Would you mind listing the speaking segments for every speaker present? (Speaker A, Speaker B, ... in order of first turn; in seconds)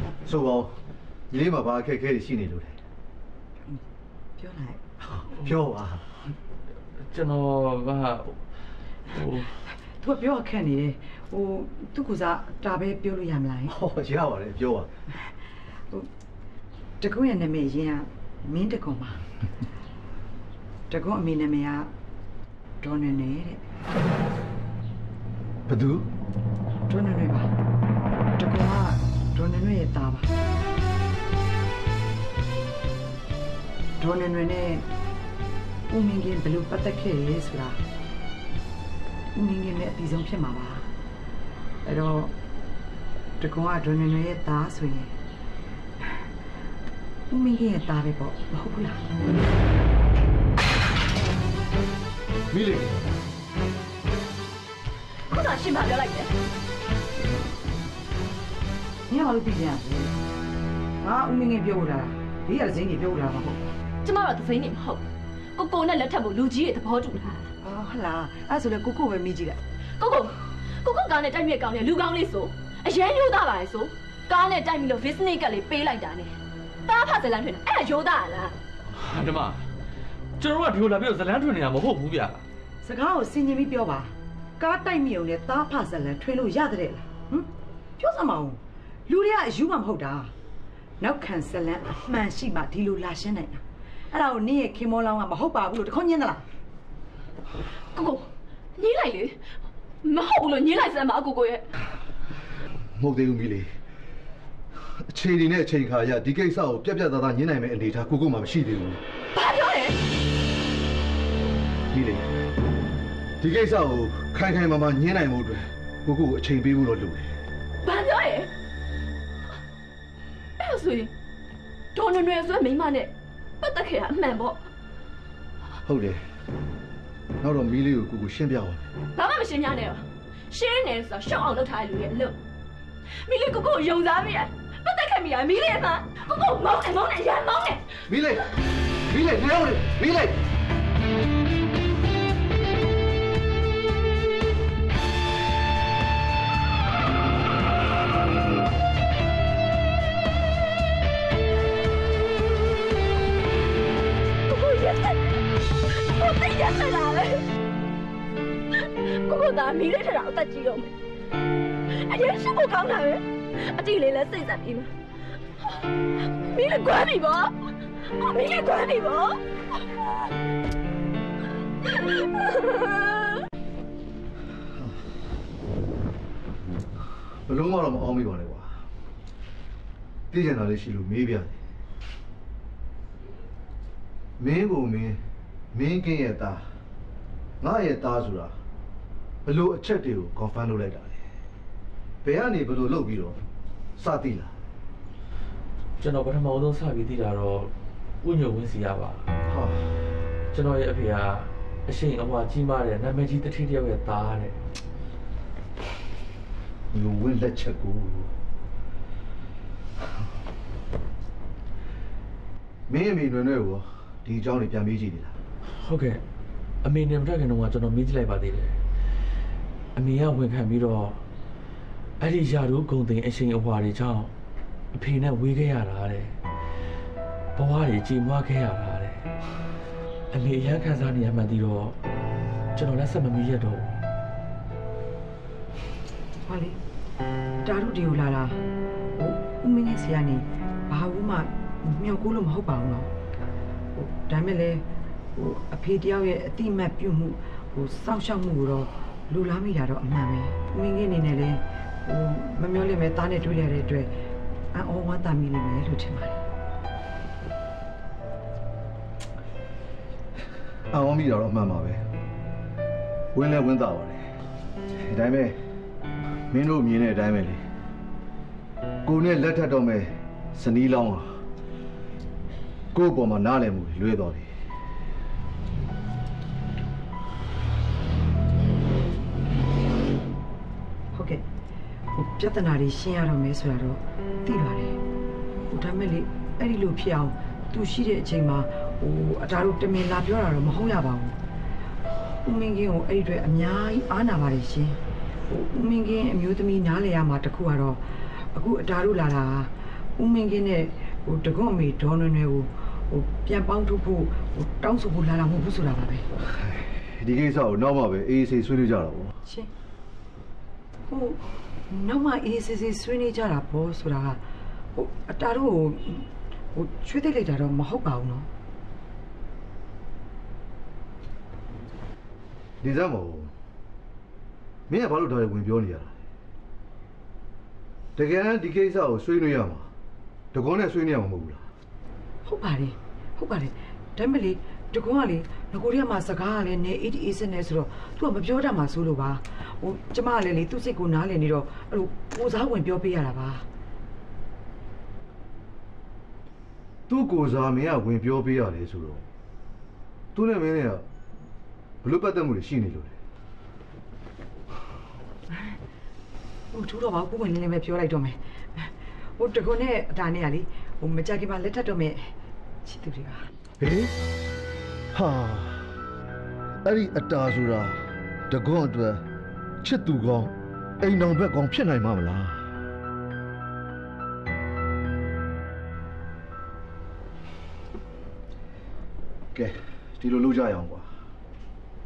Speaker A: 0.2-0.7, 1.3-2.8, 5.3-6.0, 13.7-14.9, 25.7-26.1, 52.5-53.0, 103.0-103.7, 105.0-109.0, 111.9-112.3, 113.4-117.4, 125.8-126.2, 127.4-128.9, 138.1-138.4, 139.1-140.4, 177.5-178.8, 180.3-181.6, 184.4-185.2, 185.7-186.6, 187.6-188.5, 189.4-191.2, 192.2-193.4, 194.0-194.5, 199.5-199.9, 206.9-208.3, 212.9-215.3, 260.9-262.0, 263.3-264.2, 265.0-265.6, 266.5-267.6, 269.0-271.3, 272.9-274.5, 306.5-309.3, 322.8-323.5, 324.9-326.1, 328.1-329.9, 330.5-331.6, 347.1-349.2, 350.3-351.0, 352.0-353.1, 363.8-364.1, 365.1-365.9, 366.8-369.2, 369.8-372.6, 379.5-381.1
Speaker B: 4.4-5.0, 10.0-13.7, 17.0-19.2, 20.9-21.9, 22.8-23.6, 26.9-27.5, 28.4-30.3, 34.0-34.8, 35.9-37.8, 39.3-40.9, 41.8-42.3, 43.4-45.1, 47.3-49.0, 59.1-60.1, 61.0-63.5, 67.6-69.6, 82.8-90.3, 91.0-96.4, 236.4-236.8, 237.6-238.6, 239.2-243.1, 243.9-254.1, 254.7-256.4, 281.1-281.4, 282.1-285.0, 285.7-291.4, 292.4-295.0, 295.5-306.2, 309.4-309.7, 311.1-314.4, 314.9-318.5, 332.4-343.6, 356.7-362.3, 362.8-363.5
Speaker C: 7.1-8.4, 9.1-9.6, 78.9-79.6, 80.4-82.4, 196.0-197.7, 198.2-199.2, 200.5-204.6, 215.8-216.2, 216.8-218.8, 219.9-221.2, 222.2-224.3, 224.9-226.3, 227.6-229.3, 230.3-231.9, 232.7-233.9
Speaker D: 55.3-56.3, 64.0-65.0, 65.5-67.5, 70.0-78.5, 97.9-99.4, 100.0-101.7, 109.3-110.0, 117.8-118.5, 120.6-121.1, 121.9-124.6, 129.1-132.4, 133.2-137.8, 154.5-157.5, 158.8-160.9, 161.9-164.9, 166.2-169.9, 171.8-173.4